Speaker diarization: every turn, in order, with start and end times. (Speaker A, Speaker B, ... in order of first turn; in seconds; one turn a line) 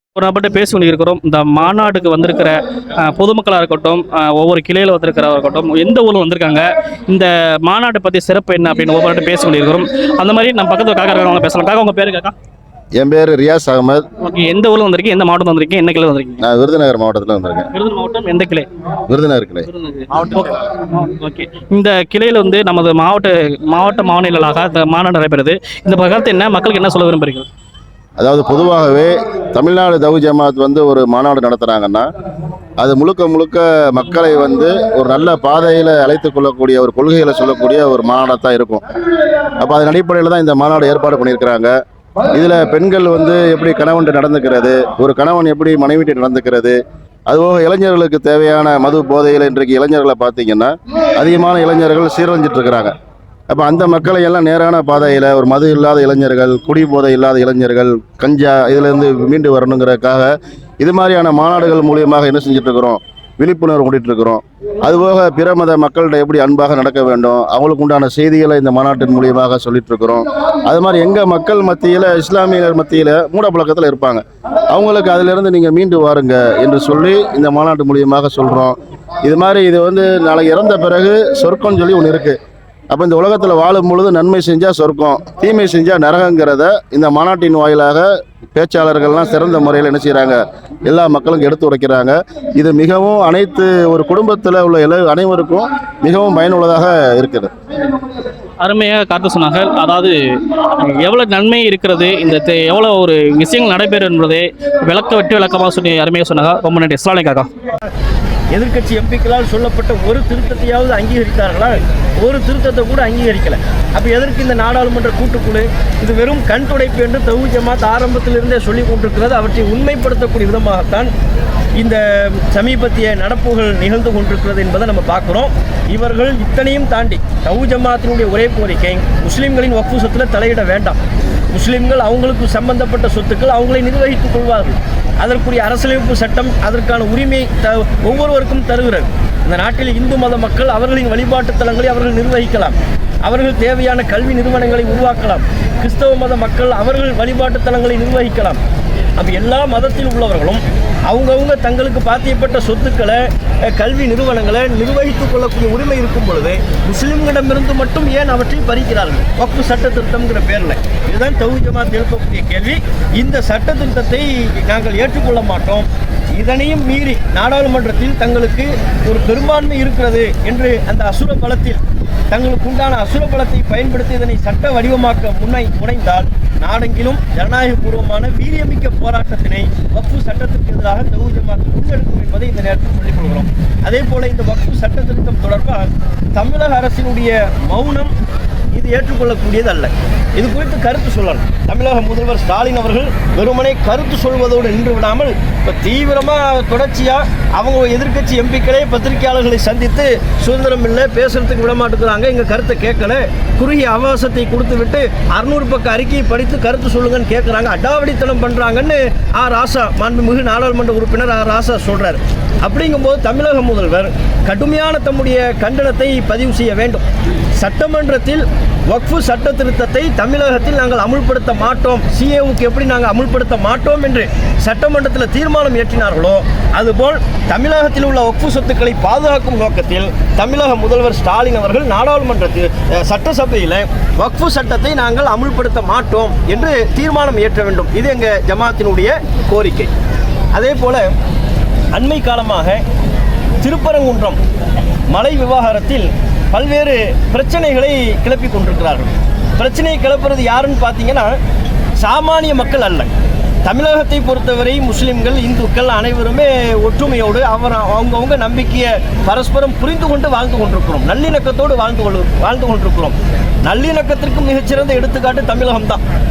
Speaker A: 0.1-12.3
Speaker B: 12.9-14.1
Speaker A: 14.2-16.4
Speaker B: 16.4-17.7
Speaker A: 17.7-18.7
Speaker B: 19.1-19.7
Speaker A: 19.7-27.5
Speaker B: 28.2-32.1
Speaker B: 32.8-38.9
Speaker B: 39.6-41.7
Speaker B: 42.3-46.8
Speaker B: 47.3-52.9
Speaker B: 53.5-82.4
Speaker B: 82.9-97.5
Speaker A: 98.6-107.5
Speaker C: 108.5-121.1
Speaker C: 121.8-131.0
Speaker C: 131.5-148.6
Speaker C: 149.2-188.1
Speaker C: 188.7-217.1
Speaker C: 217.6-239.9
Speaker C: 240.5-241.1
Speaker C: 241.9-242.8
Speaker C: 243.6-244.4
Speaker C: 245.1-251.4
Speaker C: 252.0-253.1
Speaker C: 253.6-266.0